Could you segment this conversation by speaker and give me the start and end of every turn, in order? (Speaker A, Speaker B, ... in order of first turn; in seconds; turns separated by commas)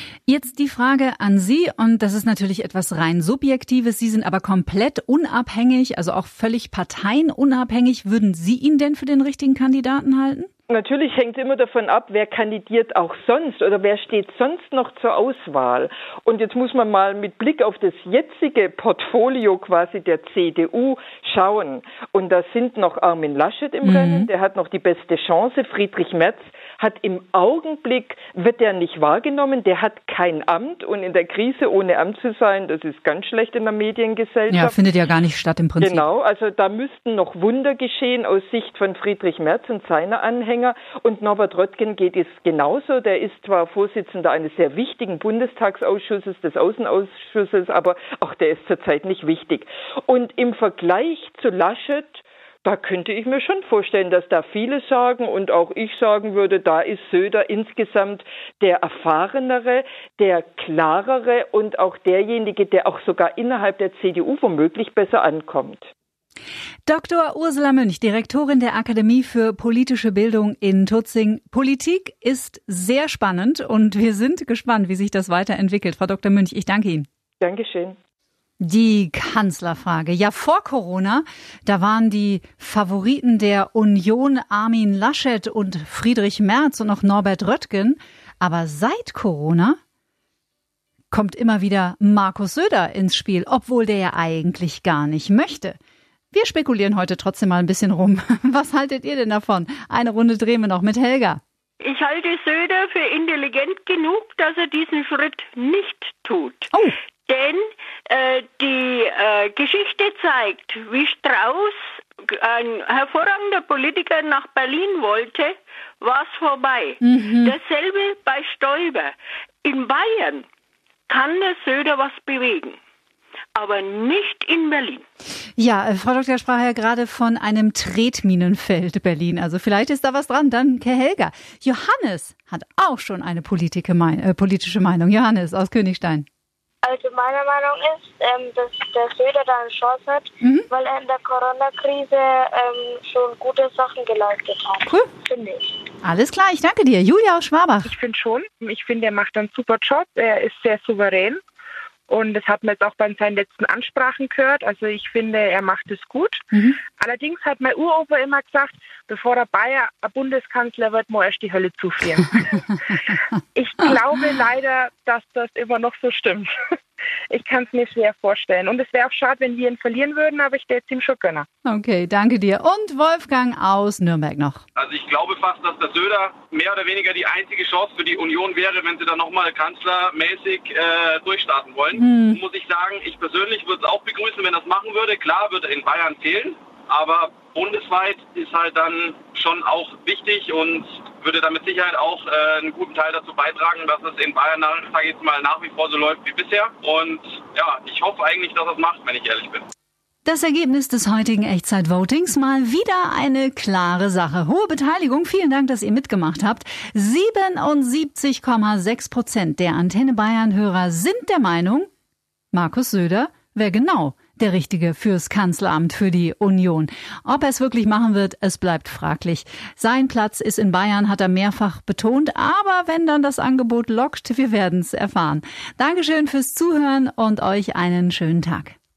Speaker A: 0.3-10.5, Speaker B: 10.7-34.8, Speaker A: 23.8-24.3, Speaker A: 34.5-36.0, Speaker B: 35.8-65.9, Speaker A: 66.8-77.1, Speaker B: 77.4-78.0, Speaker A: 78.6-89.8, Speaker A: 91.1-95.8, Speaker A: 96.3-101.4, Speaker C: 101.8-106.7, Speaker C: 107.3-120.4, Speaker A: 117.0-117.5, Speaker C: 121.1-122.8, Speaker C: 123.5-125.0, Speaker A: 125.6-136.2, Speaker D: 136.8-145.8, Speaker A: 140.4-140.7, Speaker A: 146.0-147.9, Speaker E: 147.9-151.4, Speaker E: 152.1-156.4, Speaker E: 157.0-162.3, Speaker E: 163.6-166.5, Speaker E: 167.3-171.5, Speaker A: 171.6-174.6, Speaker F: 174.8-199.7, Speaker A: 181.9-182.4, Speaker A: 200.2-211.9, Speaker A: 212.5-228.8